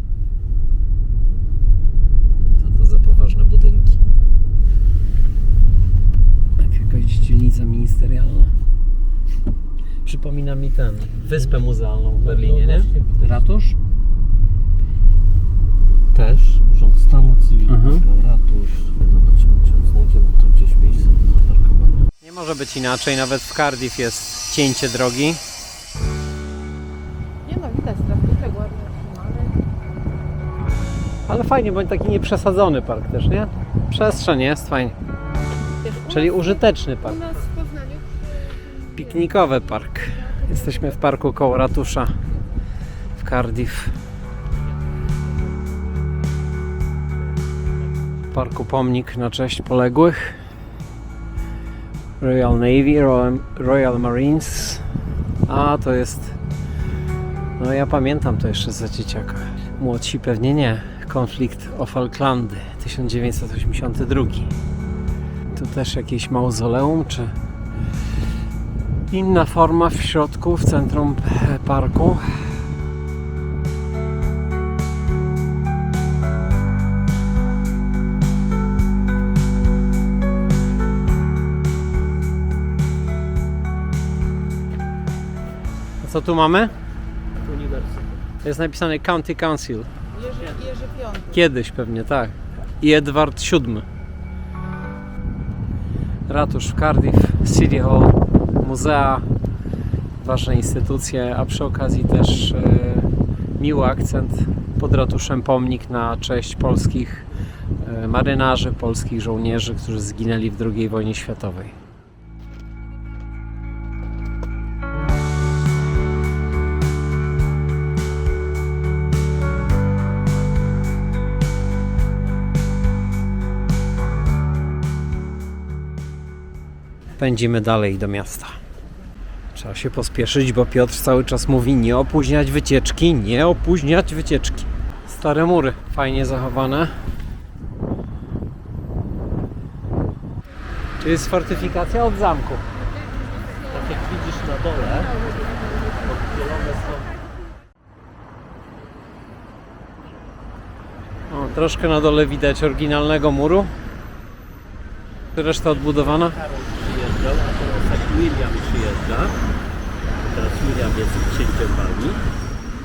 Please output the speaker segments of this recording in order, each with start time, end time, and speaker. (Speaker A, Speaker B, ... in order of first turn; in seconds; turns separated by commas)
Speaker A: 2.6-4.0, Speaker A: 6.6-8.6, Speaker A: 10.1-13.8, Speaker B: 12.2-13.4, Speaker B: 16.1-22.1, Speaker A: 17.7-18.0, Speaker A: 22.2-25.4, Speaker C: 27.4-29.6, Speaker A: 31.3-35.0, Speaker C: 35.8-39.2, Speaker A: 36.1-37.2, Speaker A: 38.9-42.2, Speaker C: 40.1-40.9, Speaker A: 43.2-44.0, Speaker A: 48.3-50.4, Speaker A: 52.2-54.9, Speaker A: 55.5-56.4, Speaker A: 57.6-64.5, Speaker A: 65.5-67.3, Speaker A: 69.1-72.6, Speaker A: 86.0-86.7, Speaker B: 87.4-88.2, Speaker A: 88.4-89.9, Speaker C: 90.1-91.4, Speaker A: 91.3-93.9, Speaker A: 96.3-99.3, Speaker A: 100.2-107.3, Speaker A: 107.8-111.8, Speaker A: 127.2-128.6, Speaker A: 129.5-136.9, Speaker A: 141.0-142.6, Speaker B: 143.6-145.2, Speaker B: 145.9-147.2, Speaker A: 151.3-153.7, Speaker A: 155.4-156.4, Speaker B: 156.4-159.4, Speaker B: 160.1-162.2